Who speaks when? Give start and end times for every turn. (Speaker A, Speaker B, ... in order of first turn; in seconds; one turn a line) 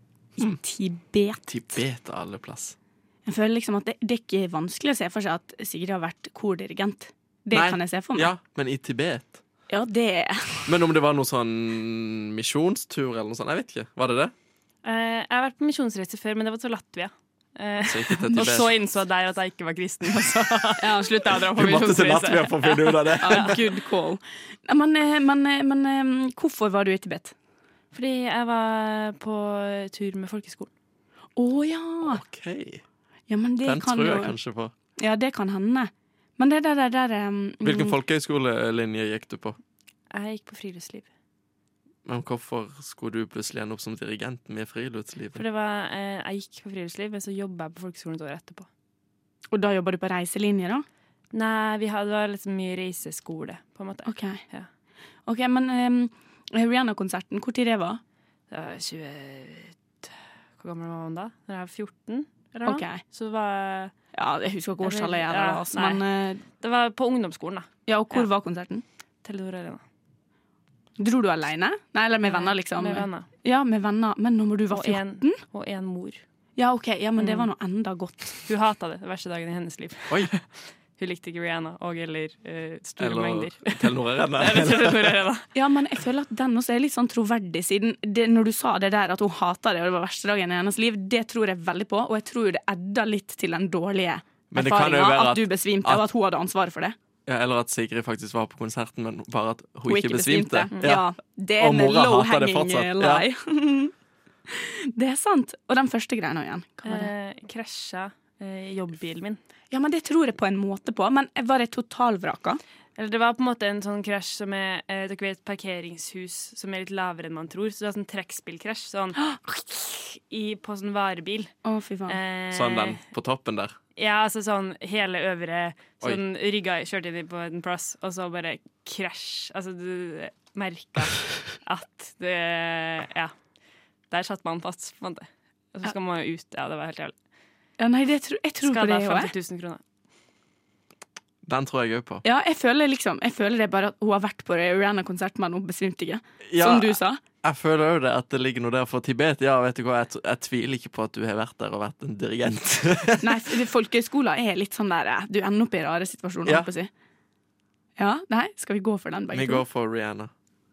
Speaker A: 0.4-1.5
Speaker B: 1.5-2.8
Speaker A: 3.2-8.3
Speaker B: 7.5-9.4
Speaker A: 9.7-10.8
Speaker B: 10.7-14.3
Speaker C: 14.8-23.5
Speaker B: 17.8-18.7
Speaker A: 18.4-18.6
Speaker A: 20.8-21.4
Speaker B: 21.3-23.6
Speaker A: 23.2-27.3
Speaker C: 27.9-30.7
Speaker A: 31.4-32.2
Speaker B: 32.0-32.8
Speaker A: 33.3-34.3
Speaker B: 33.6-34.7
Speaker A: 35.0-38.0
Speaker B: 37.6-39.6
Speaker C: 40.1-41.1
Speaker B: 42.0-45.4
Speaker C: 45.3-48.7
Speaker A: 49.5-50.8
Speaker C: 51.3-54.7
Speaker A: 54.0-54.4
Speaker A: 55.2-58.0
Speaker C: 58.5-63.9
Speaker A: 62.6-63.0
Speaker A: 64.1-66.4
Speaker C: 64.8-68.3
Speaker A: 67.8-68.8
Speaker C: 69.2-69.8
Speaker A: 71.0-75.4
Speaker C: 72.2-73.3
Speaker C: 74.7-76.2
Speaker A: 76.6-78.4
Speaker C: 77.2-77.5
Speaker C: 78.5-85.5
Speaker B: 83.0-85.1
Speaker A: 85.5-96.9
Speaker B: 94.5-96.0
Speaker B: 97.2-103.2
Speaker A: 99.9-103.9
Speaker A: 104.5-107.1
Speaker C: 106.8-109.4
Speaker A: 109.7-112.6
Speaker C: 113.0-121.5
Speaker A: 121.6-122.2
Speaker C: 122.1-123.0
Speaker B: 122.5-123.7
Speaker C: 124.0-133.3
Speaker C: 134.1-137.1
Speaker A: 137.8-139.3
Speaker C: 138.6-139.8
Speaker B: 141.4-142.2
Speaker A: 142.2-147.2
Speaker B: 146.5-153.5
Speaker A: 153.2-156.9
Speaker A: 158.0-159.6
Speaker B: 159.3-160.3